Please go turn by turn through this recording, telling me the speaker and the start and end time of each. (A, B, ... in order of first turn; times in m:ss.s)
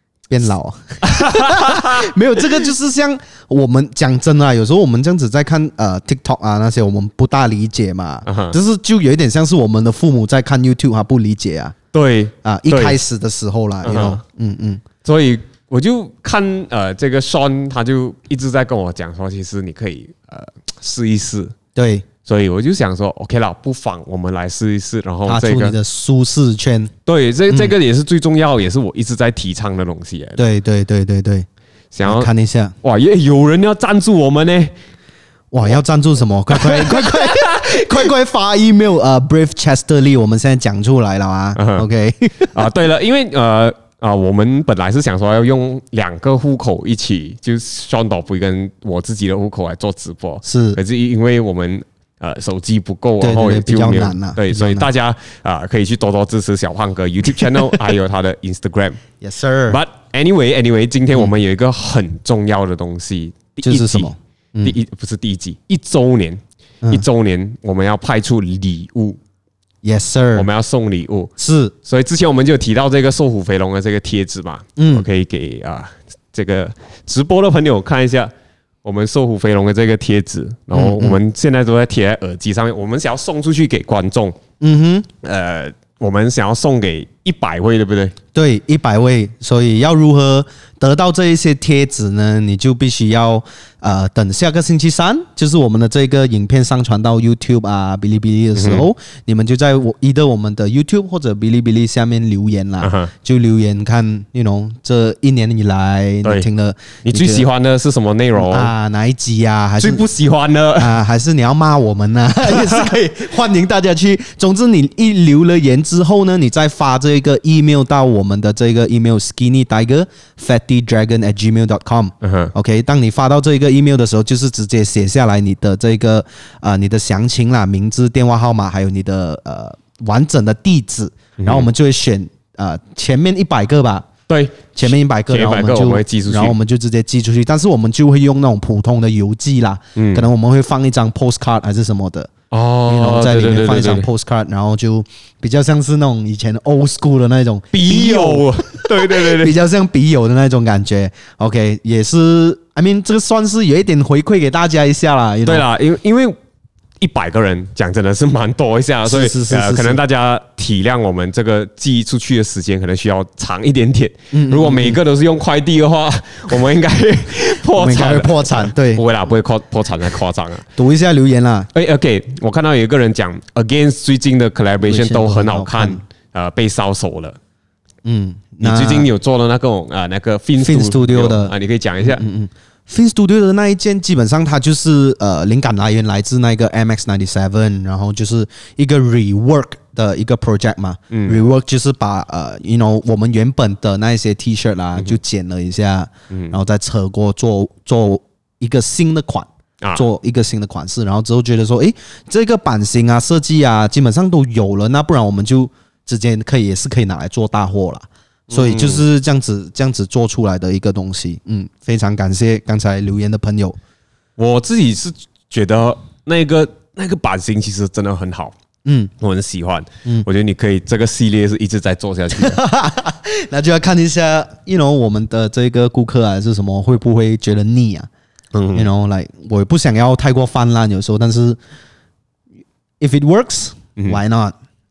0:00.3-0:11.8 A
0:01.0-0:02.1 B
0:08.3-0:08.6 B
0:11.9-0:13.0 B
0:12.4-0:14.8 A
0:13.8-0:14.2 B
0:15.0-0:21.6 B
0:21.8-0:22.1 A
0:22.2-0:25.8 B
0:25.3-0:26.9 A
0:27.1-0:30.4 B
0:27.5-0:27.7 A
0:30.4-0:31.5 A
0:31.9-0:32.3 B
0:32.0-0:32.8 A
0:32.8-0:34.7 B
0:35.5-0:42.6 A
0:36.5-0:38.0 B
0:41.6-0:41.9 B
0:42.4-0:59.0 B
0:50.4-0:50.8 A
0:53.2-0:54.9 A
0:59.2-0:59.8 A
0:59.7-1:09.2 B
1:03.6-1:04.8 A
1:09.8-1:10.5 A
1:10.4-1:11.3 B
1:11.4-1:11.7 A
1:11.8-1:18.3 B
1:14.8-1:15.1 A
1:18.8-1:24.4 B
1:20.7-1:21.2 A
1:24.6-1:25.1 A
1:25.2-1:28.2 B
1:28.3-1:47.5 A
1:38.6-1:38.9 B
1:42.8-1:43.1 B
1:47.0-1:48.7 B
1:48.4-1:50.0 A
1:49.8-1:51.0 B
1:50.8-2:14.1 A
2:02.2-2:02.5 B
2:11.4-2:11.7 B
2:14.3-2:16.6 B
2:14.8-2:22.3 A
2:20.0-2:20.3 B
2:22.5-2:24.1 B
2:22.9-2:35.7 A
2:27.7-2:29.6 B
2:35.4-2:36.4 B
2:37.0-2:50.7 B
2:39.0-2:40.0 A
2:44.3-2:45.0 A
2:47.8-2:49.0 A
2:50.8-2:51.7 A
2:51.7-2:57.4 B
2:54.8-2:56.0 A
2:58.0-2:59.1 A
2:58.6-3:02.2 B
3:00.6-3:33.8 A
3:11.1-3:11.4 B
3:16.3-3:16.6 B
3:28.5-3:29.1 B
3:34.4-3:38.6 B
3:38.8-3:39.1 A
3:39.2-3:42.6 B
3:42.4-3:48.1 A
3:48.5-3:48.9 B
3:48.8-3:51.6 A
3:53.0-3:54.6 A